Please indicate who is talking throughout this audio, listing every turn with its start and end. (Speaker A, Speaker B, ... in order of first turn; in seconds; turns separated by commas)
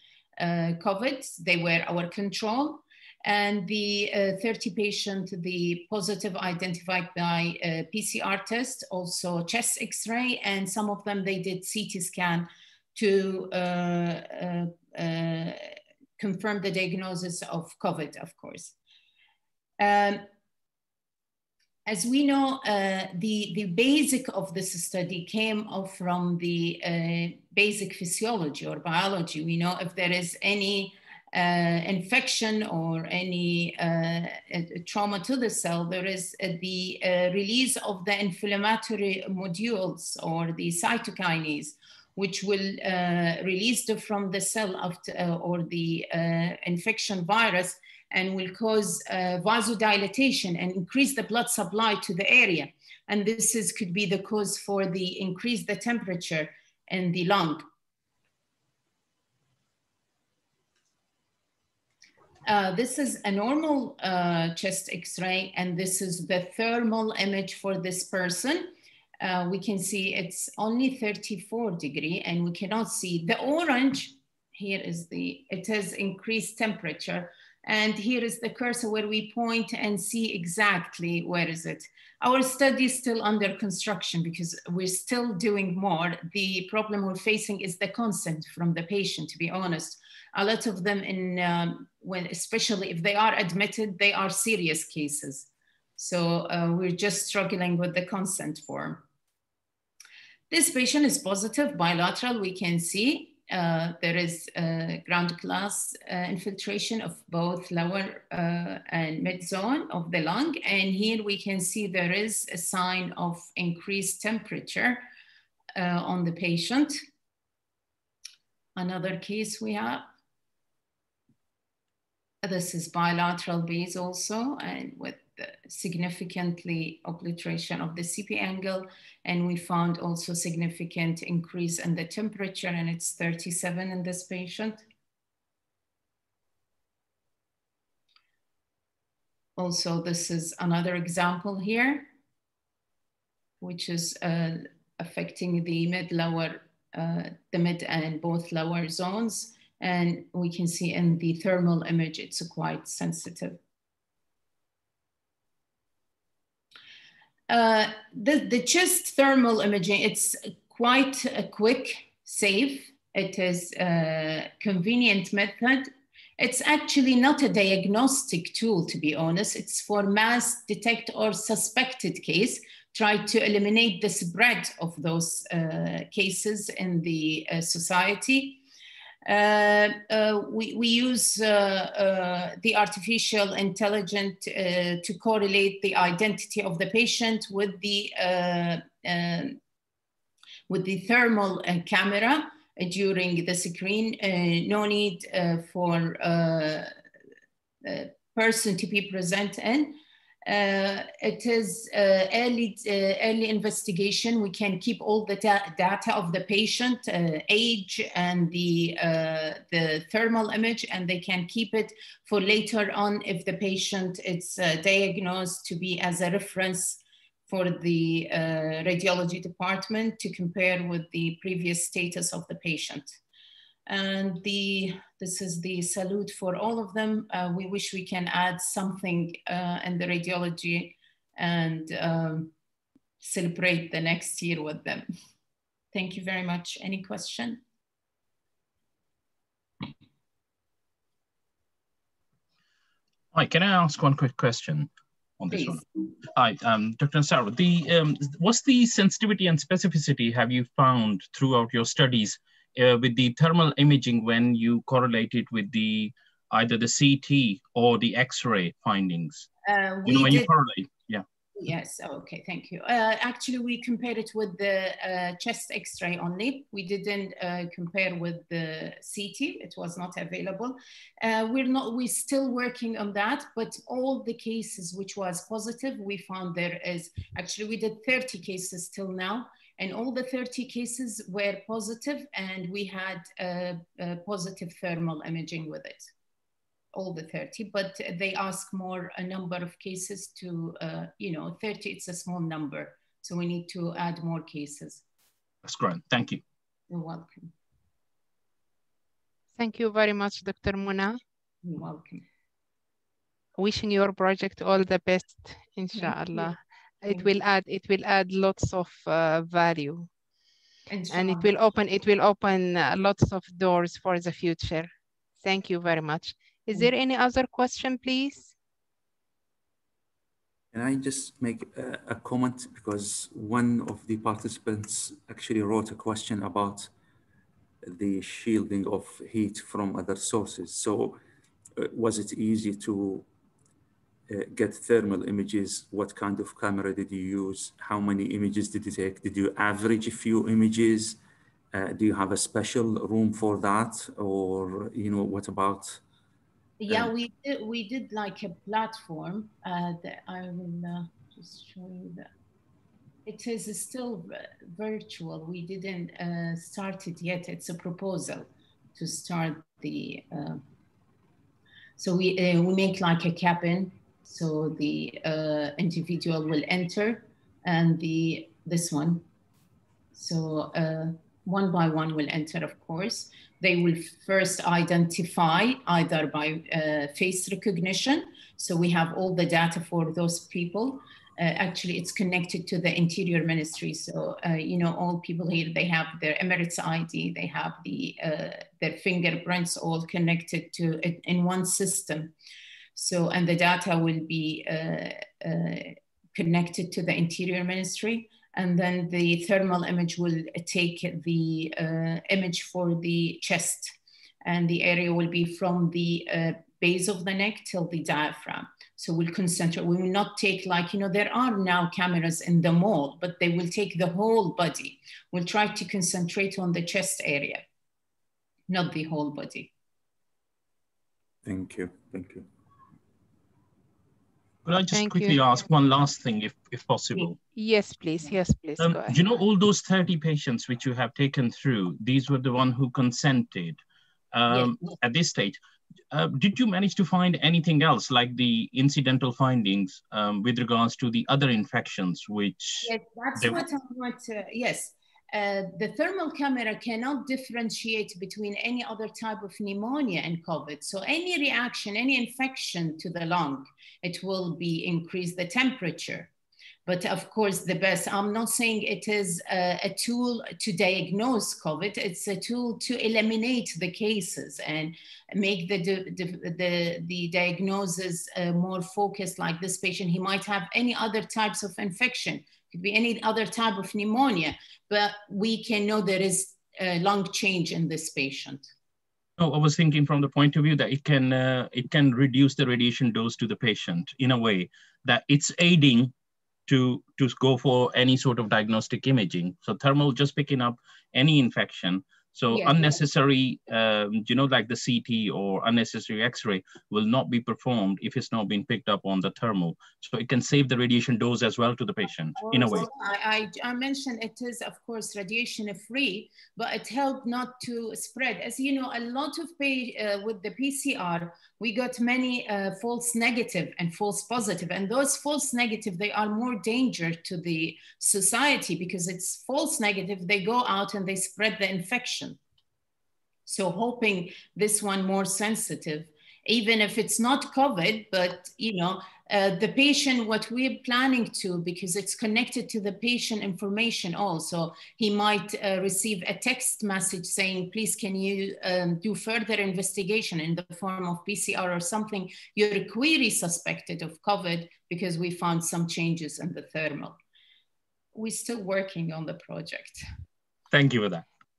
Speaker A: 0.4-18.7, Speaker A: 19.8-20.2, Speaker A: 21.9-57.6, Speaker A: 62.4-99.0, Speaker A: 100.5-115.0, Speaker A: 115.7-117.0, Speaker A: 118.8-120.0, Speaker A: 122.4-134.8, Speaker A: 139.6-142.1, Speaker A: 143.6-153.6, Speaker A: 157.5-178.6, Speaker A: 179.2-189.6, Speaker A: 190.7-196.9, Speaker A: 197.8-223.2, Speaker A: 223.9-232.5, Speaker A: 233.2-235.0, Speaker A: 235.9-237.6, Speaker B: 243.3-259.5, Speaker A: 245.5-245.8, Speaker A: 259.6-260.5, Speaker B: 260.1-261.2, Speaker A: 261.6-286.1, Speaker A: 286.9-295.0, Speaker B: 295.6-296.4, Speaker A: 296.9-297.5, Speaker C: 299.6-301.2, Speaker A: 301.6-302.2, Speaker C: 303.6-310.1, Speaker A: 305.9-306.5, Speaker A: 310.9-311.5, Speaker C: 311.1-318.5, Speaker D: 320.7-326.9, Speaker D: 327.8-331.2, Speaker D: 331.8-333.3, Speaker D: 334.3-341.2, Speaker D: 341.7-346.0, Speaker A: 346.8-352.3, Speaker A: 353.2-360.6, Speaker A: 362.0-369.2, Speaker A: 370.1-392.3, Speaker A: 392.9-417.6, Speaker A: 418.7-419.7, Speaker D: 421.4-422.4, Speaker B: 424.6-427.4, Speaker C: 424.9-425.4, Speaker C: 427.5-429.1, Speaker B: 428.8-433.8, Speaker B: 434.3-435.6, Speaker B: 436.1-443.6, Speaker A: 442.8-456.3, Speaker A: 456.9-478.7, Speaker B: 479.4-486.1, Speaker B: 486.7-502.9, Speaker A: 492.5-493.0, Speaker A: 502.4-522.4, Speaker A: 523.5-547.2, Speaker A: 548.1-550.0, Speaker B: 550.7-551.2